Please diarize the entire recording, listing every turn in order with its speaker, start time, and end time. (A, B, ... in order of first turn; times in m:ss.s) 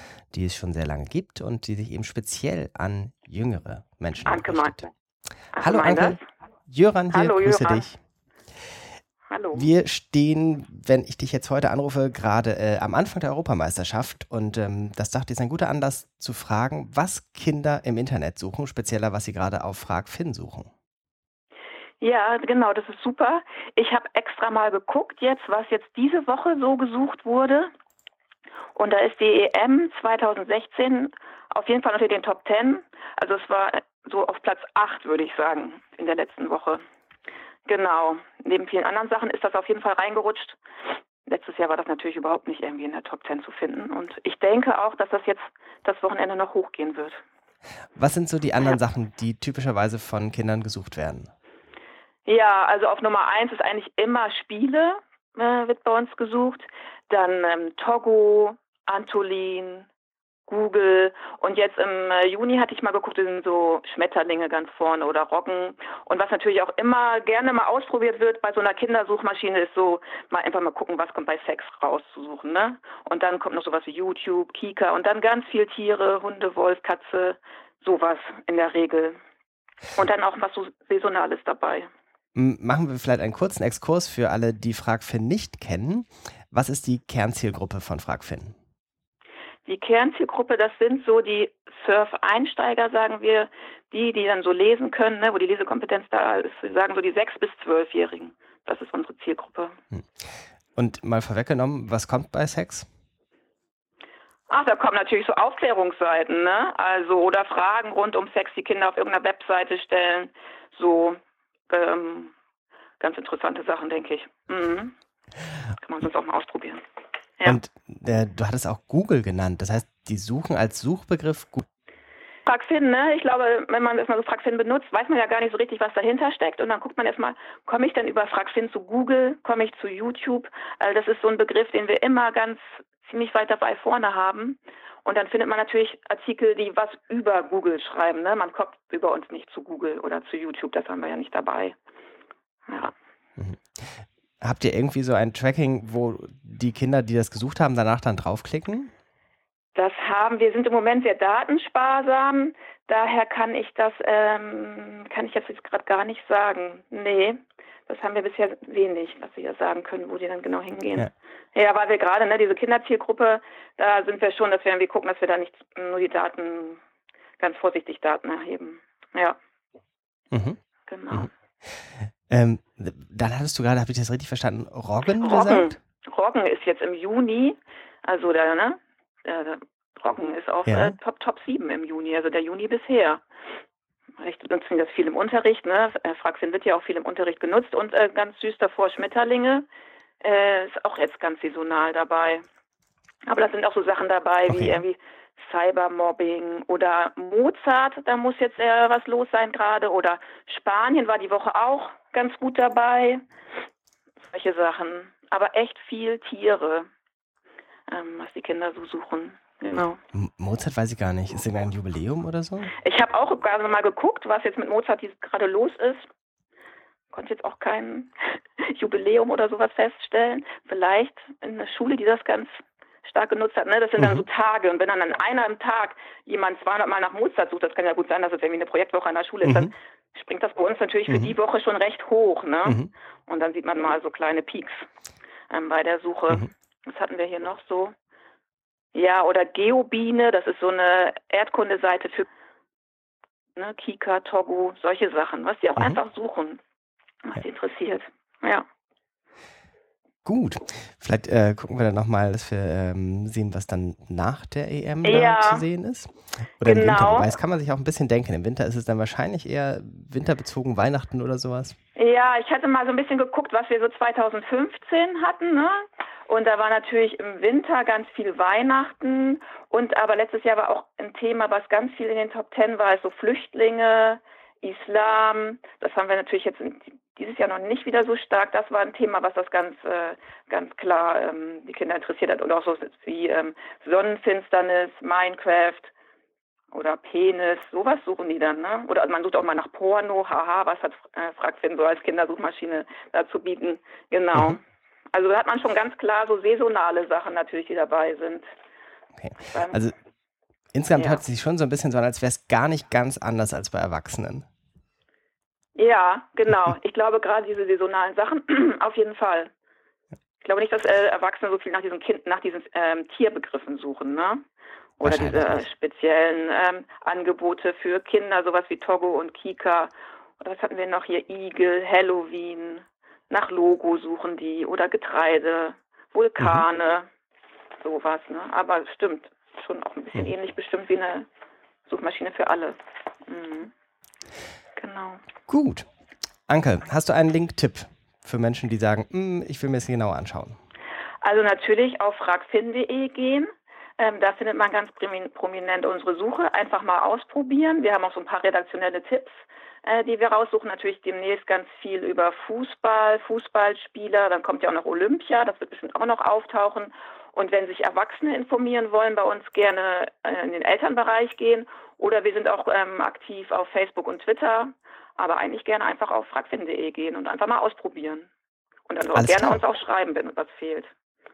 0:00.3-0:04.9 A
0:04.2-0:04.8 B
0:05.5-0:06.2 B
0:05.6-0:08.0 A
0:07.1-0:07.9 B
0:09.3-0:09.7 B
0:09.5-0:20.7 A
0:22.0-0:27.7 B
0:28.7-0:36.8 B
0:37.7-0:40.6 B
0:41.3-0:47.2 B
0:48.0-0:51.3 A
0:52.3-0:59.9 B
1:00.5-1:19.2 B
1:20.0-1:21.9 B
1:22.3-1:28.5 A
1:29.7-1:39.8 B
1:40.8-1:42.9 A
1:44.5-1:52.3 B
1:53.0-1:54.9 B
1:55.8-1:56.8 B
1:57.4-2:01.6 A
2:02.4-2:21.8 B
2:22.7-2:22.9 B
2:23.4-2:28.9 A
2:29.8-2:46.8 B
2:47.4-2:49.4 B
2:50.3-2:50.6 A
2:50.9-2:51.3 B
2:51.1-2:55.8 A
2:55.2-3:03.2 B
3:00.7-3:01.0 A
3:04.2-3:09.7 B
3:10.2-3:12.4 B
3:13.2-3:23.2 B
3:14.5-3:14.8 A
3:24.3-3:26.9 B
3:27.9-3:30.0 B
3:30.1-3:32.8 A
3:32.8-3:36.0 B
3:37.1-3:54.9 B
3:44.0-3:44.2 A
3:49.4-3:49.7 A
3:52.6-3:52.9 A
3:55.5-3:57.9 B
3:58.9-4:02.2 B
4:03.6-4:06.6 B
4:07.2-4:08.6 B
4:10.2-4:21.8 A
4:15.0-4:15.6 B
4:16.6-4:17.3 B
4:22.0-4:45.9 B
4:46.7-4:54.6 B
4:54.3-4:54.6 A
4:55.1-4:58.5 B
4:59.2-5:00.0 A
4:59.4-4:59.8 B
5:00.7-5:04.4 A
5:01.0-5:01.2 B
5:05.8-5:09.5 B
5:10.4-5:14.4 B
5:15.0-5:27.1 B
5:15.0-5:15.6 A
5:26.4-5:26.6 A
5:27.8-5:31.3 B
5:31.9-5:33.7 B
5:34.8-5:35.2 B
5:35.5-5:35.9 A
5:36.5-5:40.6 A
5:41.2-6:08.3 B
6:08.9-6:10.9 B
6:09.1-6:09.6 A